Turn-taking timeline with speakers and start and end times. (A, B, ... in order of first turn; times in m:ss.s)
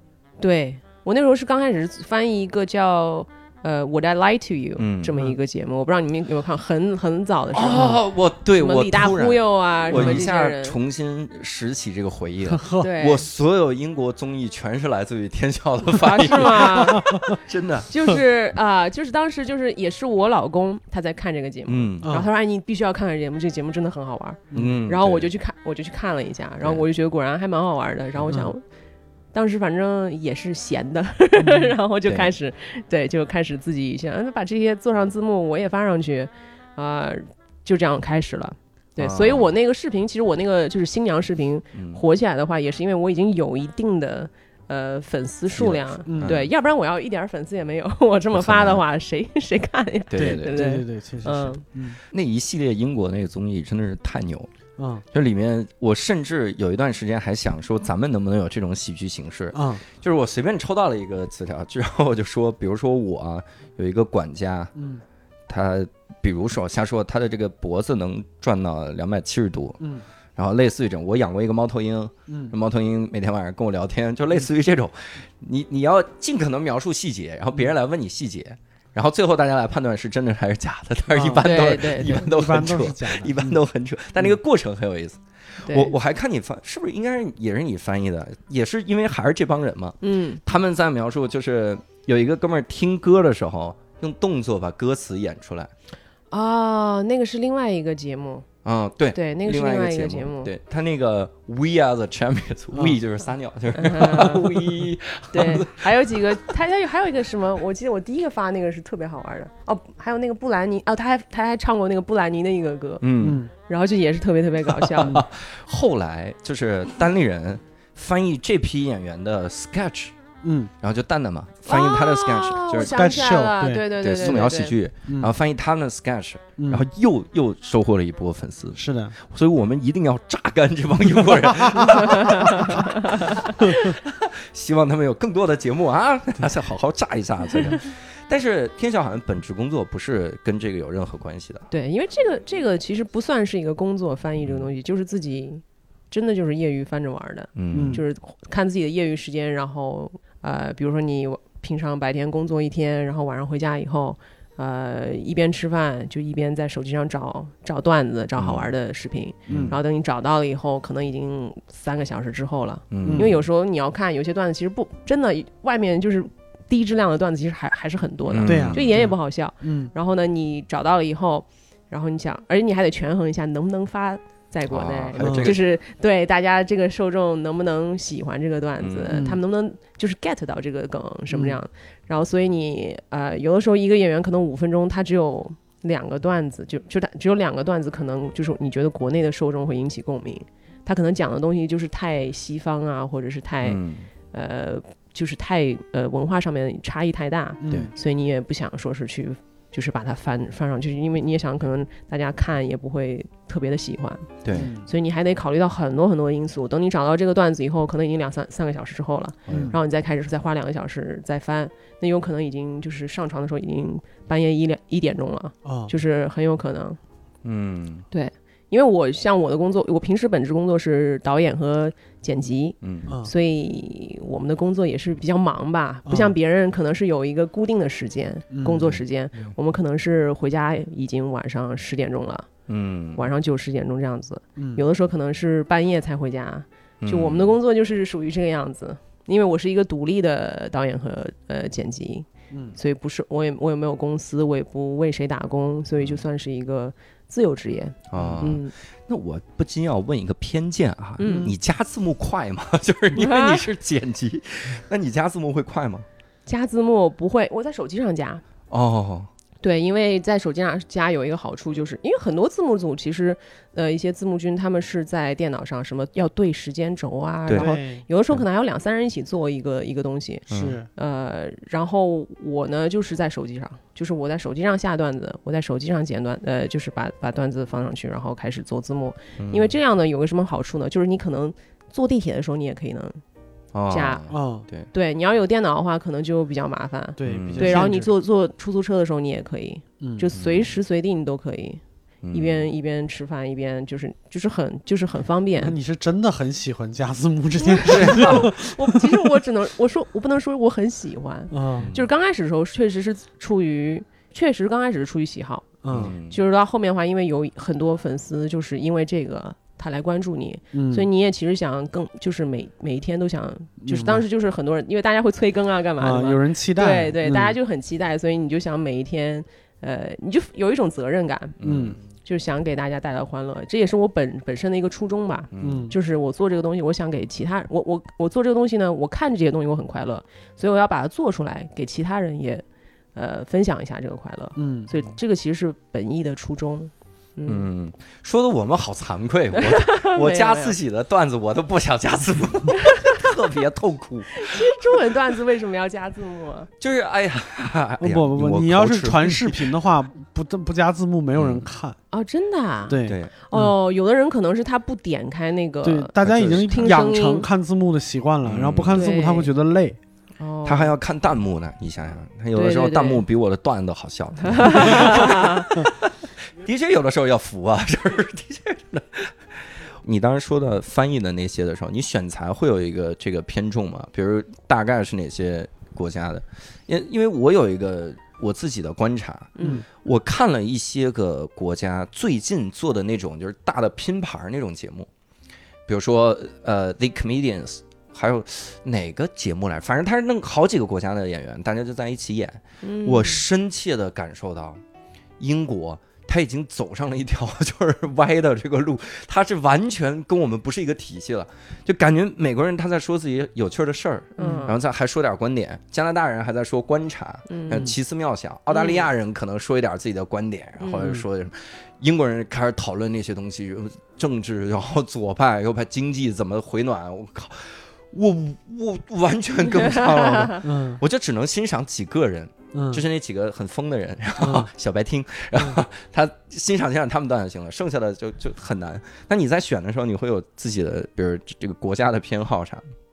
0:00.4-0:08.0 A
0:04.8-0:05.2 B
0:07.5-0:18.1 B
0:08.6-0:10.8 A
0:09.9-0:10.3 C
0:12.4-0:12.9 C
0:12.8-0:13.2 A
0:15.9-0:17.1 A
0:16.7-0:17.4 C
0:17.9-0:28.6 A
0:21.7-0:22.1 B
0:22.0-0:22.3 C
0:24.5-0:24.8 C
0:24.5-0:25.3 B
0:26.6-0:26.8 B
0:29.3-0:51.6 A
0:31.4-0:31.7 C
0:39.0-0:39.5 B
0:41.7-0:42.0 B
0:45.5-0:46.5 B
0:46.0-0:46.4 C
0:48.3-0:48.8 B
0:50.1-0:50.6 B
0:50.2-0:52.0 C
0:52.1-0:54.5 B
0:54.8-0:55.0 C
0:55.1-1:04.7 B
0:59.5-0:59.8 C
1:04.7-1:05.0 C
1:05.5-1:35.7 B
1:12.3-1:12.5 C
1:21.1-1:21.5 C
1:21.4-1:22.3 A
1:22.1-1:23.6 C
1:25.6-1:25.9 A
1:30.0-1:30.4 A
1:36.3-1:38.4 A
1:38.6-1:46.2 B
1:39.1-1:40.5 A
1:42.7-1:43.0 C
1:43.7-1:44.7 A
1:45.3-1:55.2 A
1:53.0-1:53.4 B
1:53.2-1:53.5 C
1:54.8-2:00.1 B
2:00.4-2:00.7 C
2:00.8-2:03.0 B
2:01.6-2:04.7 A
2:02.8-2:03.8 C
2:04.0-2:21.7 B
2:05.1-2:05.3 C
2:06.6-2:06.8 C
2:08.8-2:09.1 C
2:11.6-2:12.5 C
2:12.1-2:13.9 A
2:21.7-3:13.8 A
2:24.4-2:24.7 B
2:27.5-2:28.0 B
2:27.7-2:28.0 C
2:38.4-2:38.7 B
2:39.5-2:39.8 B
2:39.5-2:39.8 C
2:42.9-2:43.4 B
2:43.0-2:43.4 C
2:48.3-2:48.9 B
2:48.4-2:49.9 C
2:54.7-2:55.6 B
2:55.2-2:55.5 C
2:58.8-2:59.2 B
2:59.1-2:59.4 C
3:01.3-3:01.6 C
3:13.6-3:14.1 B
3:14.3-3:37.0 A
3:17.6-3:17.9 C
3:24.4-3:24.7 B
3:24.5-3:24.9 C
3:29.5-3:29.7 B
3:29.5-3:29.8 C
3:35.6-3:35.9 C
3:37.4-3:38.0 B
3:38.1-3:52.5 A
3:42.8-3:43.1 B
3:46.1-3:46.4 C
3:48.5-3:49.0 C
3:52.7-3:53.3 B
3:53.2-4:08.7 A
3:54.6-3:54.8 C
3:57.0-3:57.5 B
4:02.5-4:02.8 C
4:08.1-4:16.0 B
4:08.1-4:08.5 C
4:11.2-4:11.5 A
4:11.2-4:11.5 C
4:13.2-4:13.6 A
4:16.4-4:18.4 A
4:18.7-4:19.3 B
4:19.6-4:43.2 A
4:27.5-4:27.7 B
4:27.6-4:28.0 C
4:30.5-4:30.8 B
4:30.5-4:30.9 C
4:39.4-4:39.8 B
4:43.7-4:44.9 B
4:43.9-4:44.2 A
4:44.3-4:44.6 C
4:44.9-4:51.8 A
4:47.2-4:48.1 C
4:47.2-4:47.8 B
4:50.0-4:50.3 C
4:50.4-4:50.7 B
4:52.2-4:52.7 B
4:52.3-4:55.8 A
4:55.6-4:59.0 C
4:57.6-5:21.6 A
4:57.8-4:58.5 B
5:01.5-5:01.9 C
5:01.8-5:02.1 B
5:05.8-5:06.1 C
5:05.9-5:06.4 B
5:10.7-5:11.1 C
5:13.8-5:14.2 C
5:16.0-5:17.6 C
5:21.6-5:22.0 B
5:21.6-5:22.0 C
5:22.2-5:32.6 A
5:25.5-5:25.9 B
5:25.6-5:25.9 C
5:33.1-5:37.7 A
5:34.6-5:34.9 C
5:37.4-5:45.0 B
5:39.5-5:40.8 A
5:42.8-5:43.2 A
5:44.3-5:46.7 A
5:46.8-5:49.7 B
5:48.0-5:52.0 C
5:51.4-5:51.6 B
5:52.1-5:57.4 A
5:52.9-5:53.7 C
5:53.0-5:53.3 B
5:55.8-6:00.0 C
5:56.2-5:57.0 B
5:58.4-5:59.0 B
5:58.9-5:59.5 A
6:00.4-6:00.9 A
6:00.6-6:25.1 B
6:02.5-6:03.2 A
6:04.5-6:05.6 A
6:19.6-6:19.8 A
6:25.9-6:34.8 B
6:32.8-6:33.4 A
6:35.4-7:12.8 B
6:44.4-6:44.7 A
6:44.4-6:44.7 C
6:47.5-6:47.9 A
6:48.7-6:49.1 A
6:50.8-6:51.1 A
7:00.0-7:00.6 A
7:00.6-7:01.0 C
7:02.7-7:03.0 C
7:04.4-7:04.7 C